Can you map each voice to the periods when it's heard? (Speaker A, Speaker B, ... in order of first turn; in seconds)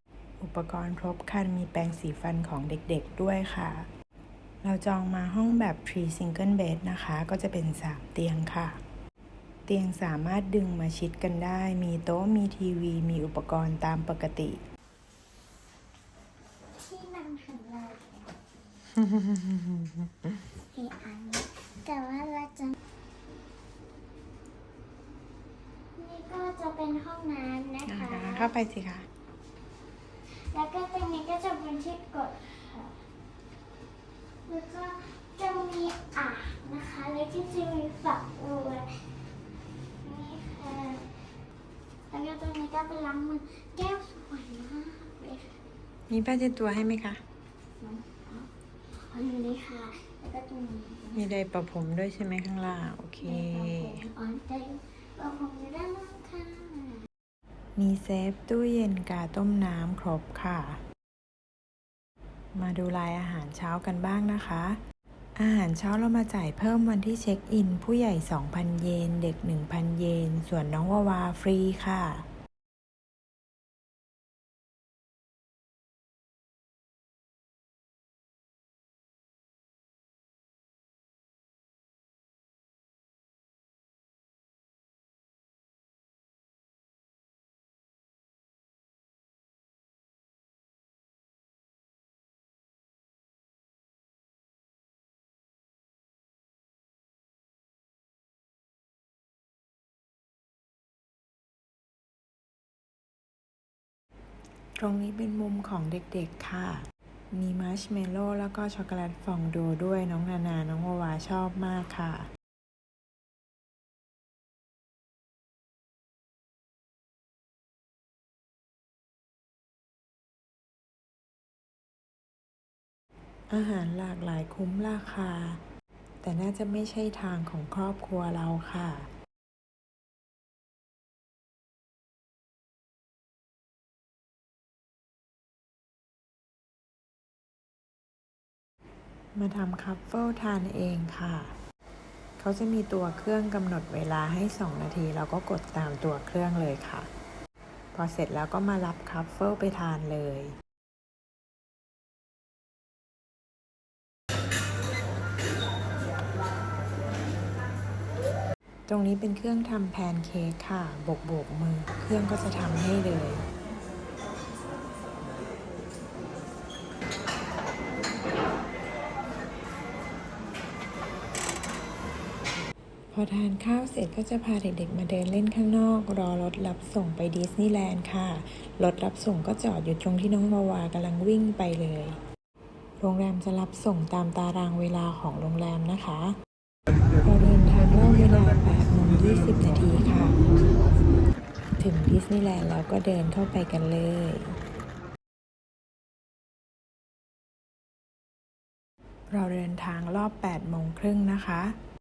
Speaker A: 0.4-3.9, 4.6-8.8, 9.7-14.6, 19.0-19.8, 27.9-29.1, 46.1-47.2, 51.1-54.0, 57.8-60.8, 62.5-64.8, 65.3-72.2, 104.8-112.3, 123.5-125.6, 126.2-129.1, 139.3-141.5, 142.4-147.1, 147.9-150.5, 158.9-163.4, 173.1-182.2, 183.0-186.3, 187.2-190.3, 191.8-194.6, 199.3-201.7
Speaker B: 16.7-18.3, 20.6-22.8, 25.9-28.5, 30.4-33.0, 34.5-39.0, 40.0-41.2, 42.1-45.5, 47.8-51.3, 53.2-57.0